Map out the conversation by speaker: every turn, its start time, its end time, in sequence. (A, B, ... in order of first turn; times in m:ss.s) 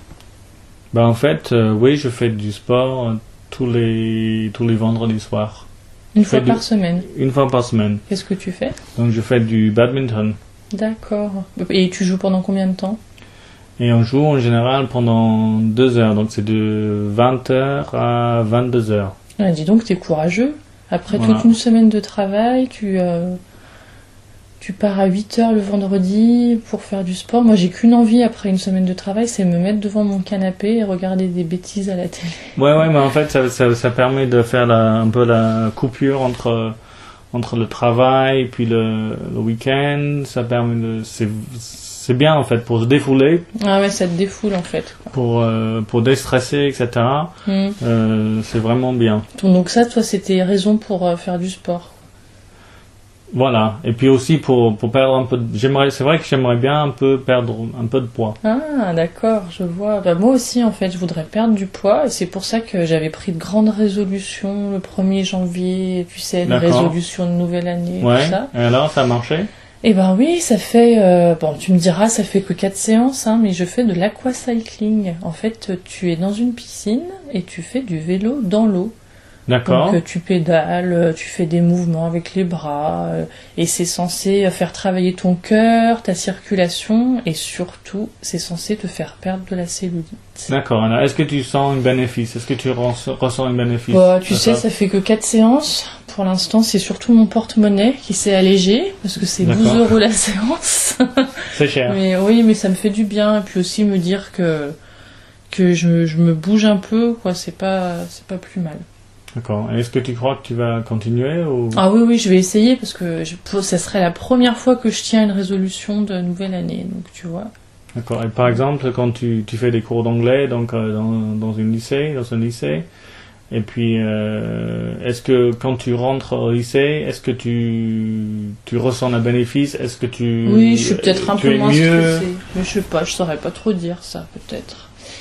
0:00.9-0:05.7 A
0:06.1-0:07.0 B
0:06.2-0:08.0 A
0:08.1-0:08.8 B
0:09.0-0:10.4 A
0:10.7-0:13.0 B
0:13.8-0:19.1 A
0:19.4-0:23.4 B
0:21.1-0:21.5 A
0:24.6-0:32.5 B
0:32.6-0:36.7 A
0:37.3-0:43.5 A
0:43.6-0:45.1 B
0:45.1-0:49.2 A
0:47.4-0:47.8 B
0:49.3-0:52.0 B
0:53.3-0:58.4 A
0:58.4-1:08.5 B
1:06.4-1:07.0 A
1:08.0-1:09.5 A
1:09.8-1:18.9 B
1:19.5-1:20.0 A
1:19.6-1:30.5 B
1:30.5-1:34.6 A
1:33.9-1:44.8 B
1:39.4-1:39.9 A
1:41.5-1:42.0 A
1:45.5-1:48.8 B
1:49.4-1:51.8 A
1:51.7-1:57.5 B
1:57.9-2:02.9 A
2:03.5-2:12.3 A
2:10.4-2:14.9 B